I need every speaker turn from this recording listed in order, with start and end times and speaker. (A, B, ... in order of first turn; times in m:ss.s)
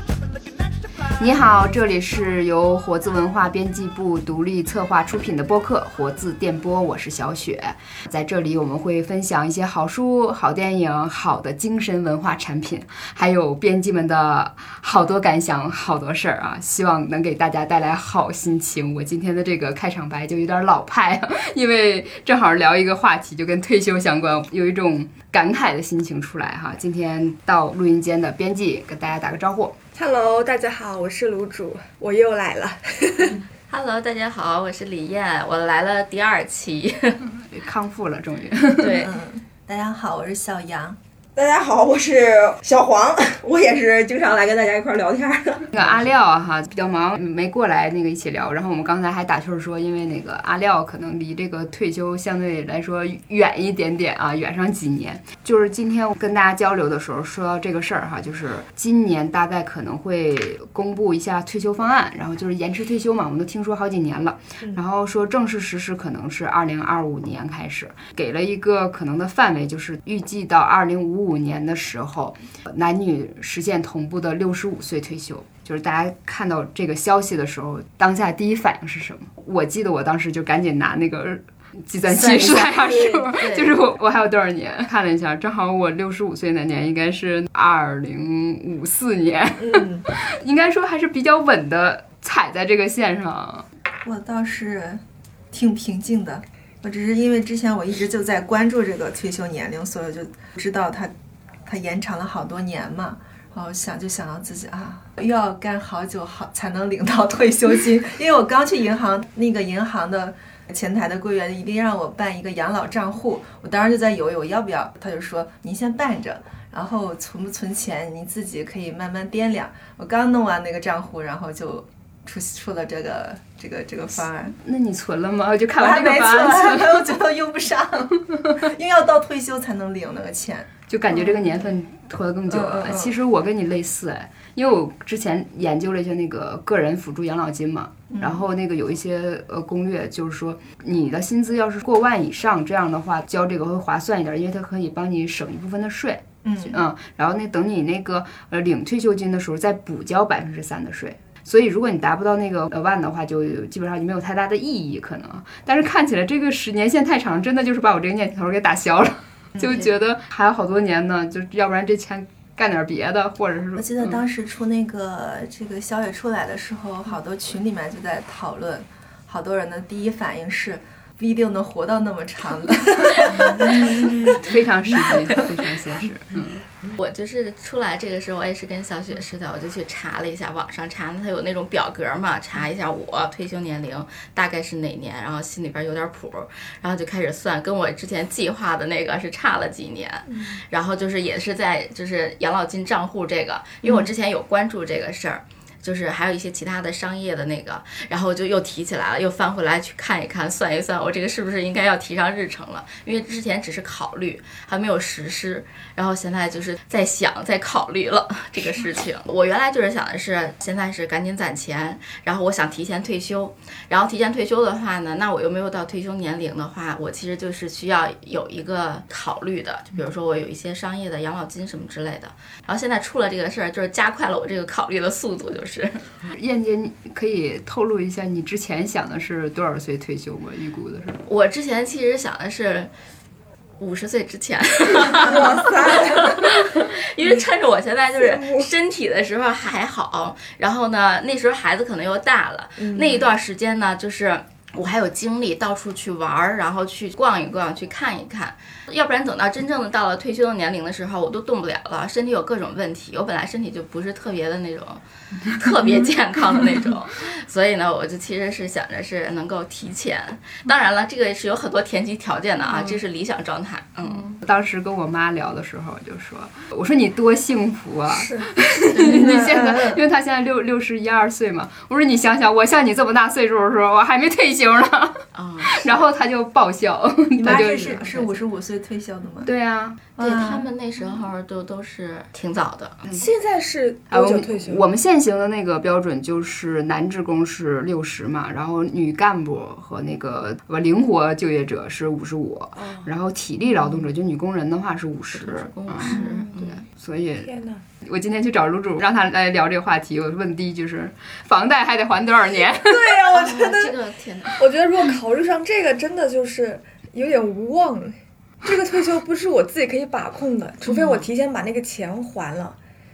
0:01.2-0:29.7 A
0:29.9-0:33.4 B
0:33.7-0:37.2 C
0:37.3-0:39.1 A
0:38.8-0:39.1 C
0:38.9-0:41.0 D
0:41.4-0:45.9 E
0:45.7-1:33.6 A
1:22.1-1:23.8 C
1:29.6-1:30.0 D
1:34.0-1:41.1 D
1:41.6-2:04.5 D
2:04.6-2:07.2 A
2:05.8-2:10.7 D
2:08.2-2:08.6 A
2:10.9-2:44.2 A
2:12.5-2:13.1 D
2:18.1-2:18.4 D
2:26.4-2:26.8 D
2:43.8-2:54.3 D
2:53.6-2:56.6 A
2:54.1-2:54.3 B
2:56.9-3:46.1 C
3:46.3-3:51.2 A
3:51.2-3:52.9 C
3:53.8-4:24.4 C
3:55.2-3:56.5 E
3:58.3-3:58.6 B
4:02.8-4:03.2 B
4:24.0-4:38.4 A
4:28.1-4:28.5 B
4:29.0-4:29.2 C
4:29.0-4:30.0 D
4:35.3-4:35.9 C
4:37.3-4:39.5 D
4:39.4-4:40.0 A
4:40.2-4:40.7 D
4:40.2-4:43.0 C
4:43.1-4:44.8 B
4:44.1-4:57.5 A
4:52.7-4:53.1 B
4:55.4-4:56.8 C
4:56.1-4:56.5 B
4:57.4-4:57.8 B
4:58.0-5:03.2 A
5:02.7-5:04.0 B
5:03.3-5:04.6 C
5:04.6-5:12.8 B
5:10.9-5:11.2 A